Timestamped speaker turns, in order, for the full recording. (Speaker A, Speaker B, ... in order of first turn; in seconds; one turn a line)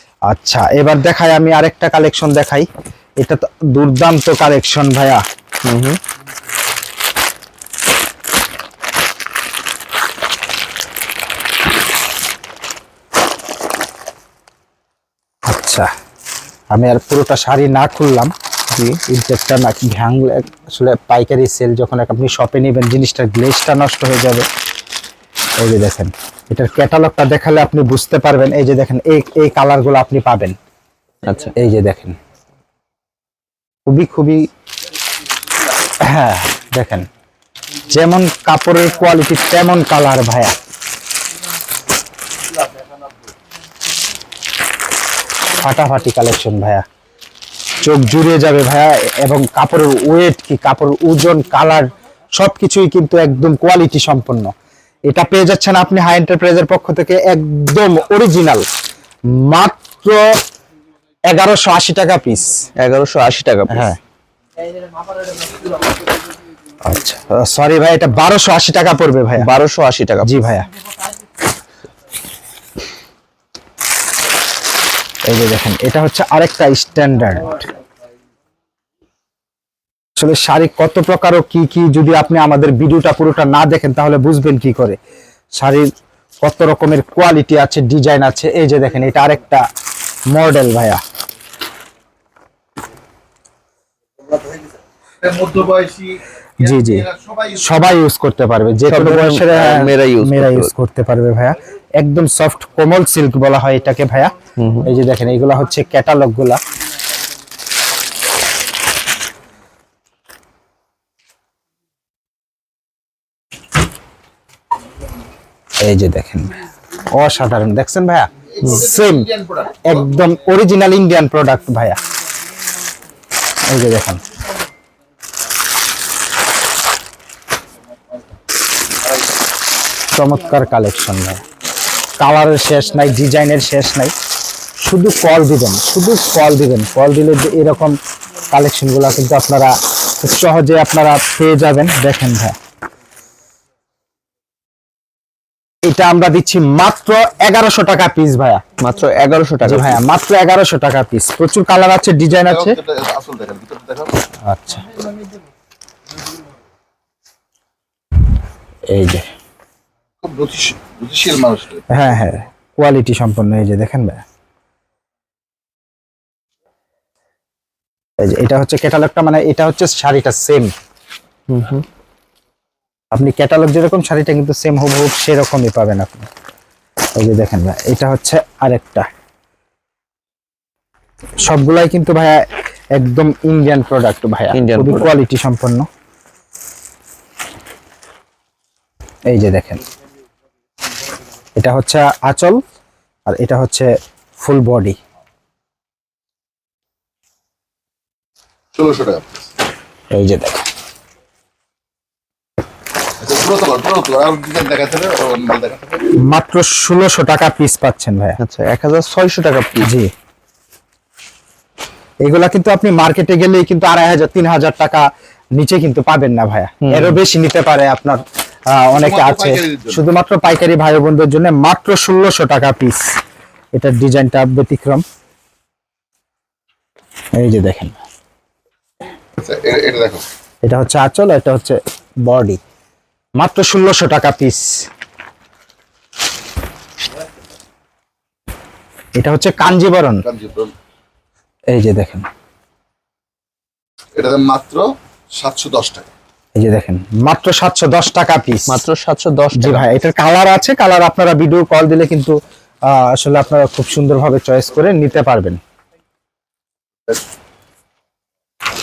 Speaker A: 0.3-2.7
Speaker A: 3.2-5.2
Speaker B: 5.7-6.0
Speaker A: 15.5-15.9
Speaker A: 16.7-18.3
Speaker B: 18.7-19.0
Speaker A: 19.1-24.4
Speaker A: 25.6-30.6
Speaker B: 31.2-31.5
Speaker A: 31.3-32.2
Speaker A: 33.9-34.5
Speaker A: 36.0-37.1
Speaker A: 37.9-40.5
Speaker A: 45.6-46.9
Speaker A: 47.8-54.5
Speaker A: 55.1-58.6
Speaker A: 59.3-60.3
Speaker A: 61.3-62.7
Speaker B: 62.8-63.9
Speaker A: 63.7-64.0
Speaker A: 66.8-69.5
Speaker B: 69.4-70.3
Speaker A: 70.2-70.7
Speaker A: 75.2-77.6
Speaker A: 80.2-85.0
Speaker A: 85.6-85.8
Speaker A: 86.4-89.7
Speaker A: 90.3-91.0
Speaker C: 95.2-97.6
Speaker A: 96.6-106.6
Speaker B: 98.8-100.7
Speaker B: 104.6-104.9
Speaker A: 115.8-122.0
Speaker C: 118.6-119.8
Speaker A: 123.7-124.2
Speaker A: 130.1-131.4
Speaker A: 132.2-134.1
Speaker A: 134.8-142.6
Speaker A: 145.8-148.6
Speaker B: 148.8-150.0
Speaker A: 149.6-152.8
Speaker C: 152.5-154.1
Speaker A: 154.4-155.0
Speaker A: 158.9-159.3
Speaker C: 160.2-162.0
Speaker A: 161.9-164.2
Speaker A: 168.2-170.7
Speaker B: 171.5-171.8
Speaker A: 173.1-176.3
Speaker A: 177.2-179.1
Speaker A: 181.4-182.4
Speaker A: 182.9-185.9
Speaker B: 184.5-185.1
Speaker A: 189.3-189.8
Speaker A: 191.6-192.6
Speaker A: 193.3-194.9
Speaker C: 198.8-199.4
Speaker A: 200.1-200.6
Speaker C: 203.2-205.9
Speaker A: 206.1-208.4
Speaker B: 208.4-209.9
Speaker A: 209.8-210.1
Speaker A: 212.2-223.0
Speaker B: 216.8-217.2
Speaker C: 218.9-220.0
Speaker A: 223.8-225.0
Speaker A: 227.4-228.0
Speaker C: 229.4-230.2
Speaker A: 230.6-232.6
Speaker A: 233.4-234.7
Speaker A: 239.2-240.2
Speaker C: 240.2-240.7
Speaker A: 241.7-242.2
Speaker C: 244.2-246.1
Speaker A: 246.6-248.8
Speaker B: 248.7-249.9
Speaker A: 249.6-252.4
Speaker A: 252.9-255.6